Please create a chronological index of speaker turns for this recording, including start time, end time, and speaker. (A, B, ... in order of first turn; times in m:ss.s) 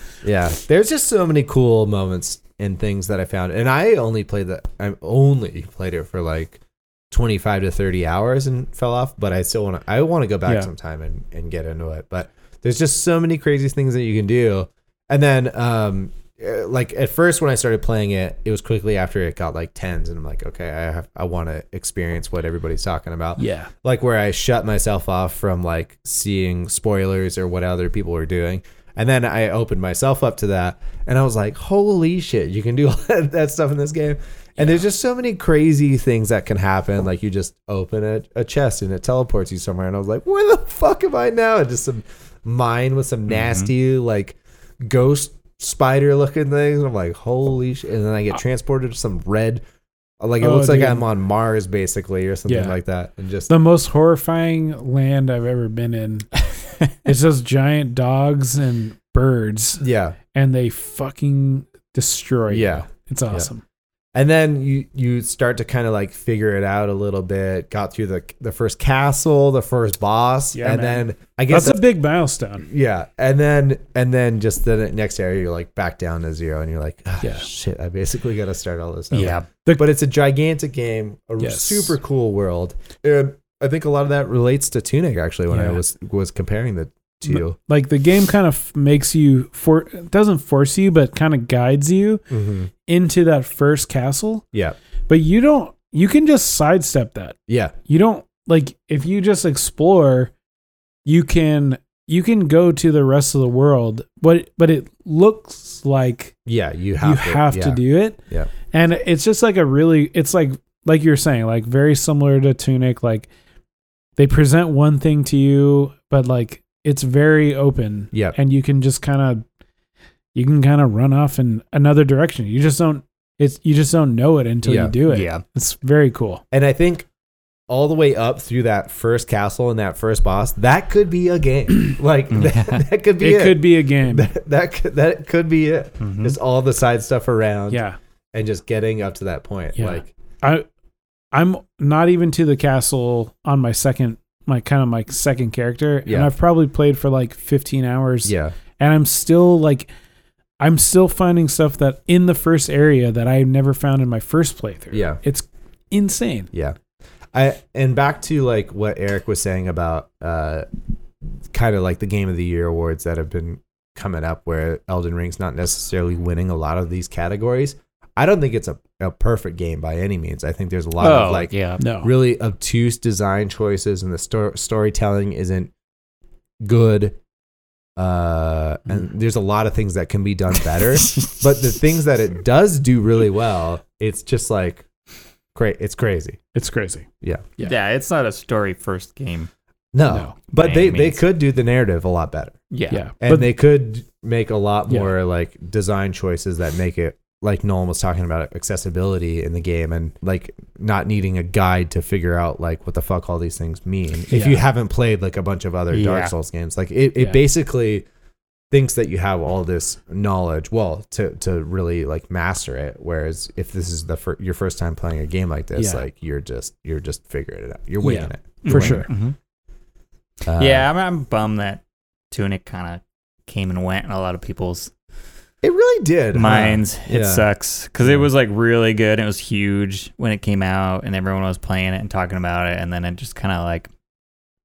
0:00.2-0:49.6 A
0:23.4-0:23.7 B
0:43.3-0:43.7 C
0:50.2-0:53.5 A
0:50.4-0:51.0 B
0:52.5-0:52.8 B
0:53.5-0:56.4 B
0:56.9-1:03.6 B
0:59.8-1:00.2 A
1:02.5-1:03.5 A
1:04.1-1:11.8 A
1:10.5-1:12.7 B
1:12.7-1:27.6 A
1:19.1-1:19.5 C
1:19.6-1:19.9 B
1:21.4-1:21.9 B
1:25.5-1:25.8 B
1:27.3-1:32.3 B
1:32.3-1:32.7 A
1:32.9-1:34.4 B
1:35.1-1:40.3 B
1:37.5-1:37.8 A
1:41.1-1:46.4 B
1:46.5-1:48.5 A
1:47.0-1:48.2 B
1:48.7-1:53.3 B
1:54.2-1:59.4 B
2:00.4-2:06.4 B
2:04.6-2:05.0 A
2:05.1-2:05.4 C
2:06.5-2:07.1 A
2:07.7-2:17.8 A
2:12.3-2:12.8 C
2:13.2-2:14.3 B
2:16.0-2:16.4 C
2:17.7-2:18.0 B
2:18.3-2:20.1 A
2:19.8-2:20.7 B
2:21.3-2:29.9 B
2:26.0-2:26.3 A
2:28.2-2:28.6 A
2:30.6-2:36.5 B
2:34.9-2:35.2 A
2:36.5-2:36.8 A
2:37.3-2:40.7 A
2:41.5-2:55.7 A
2:51.0-2:51.8 C
2:51.8-2:52.1 B
2:56.6-2:57.2 A
2:58.0-3:04.8 A
3:05.6-3:06.4 A
3:06.6-3:07.1 B
3:07.6-3:09.5 C
3:09.9-3:12.6 A
3:10.1-3:10.4 B
3:10.5-3:11.2 C
3:12.7-3:13.0 C
3:12.9-3:13.5 B
3:13.2-3:28.1 A
3:24.3-3:24.6 B
3:25.9-3:26.3 C
3:28.7-3:39.1 A
3:35.8-3:36.0 B
3:38.0-3:39.1 B
3:38.6-3:39.4 C
3:40.5-3:40.9 A
3:40.6-3:44.9 C
3:45.6-3:47.5 A
3:46.3-3:53.9 C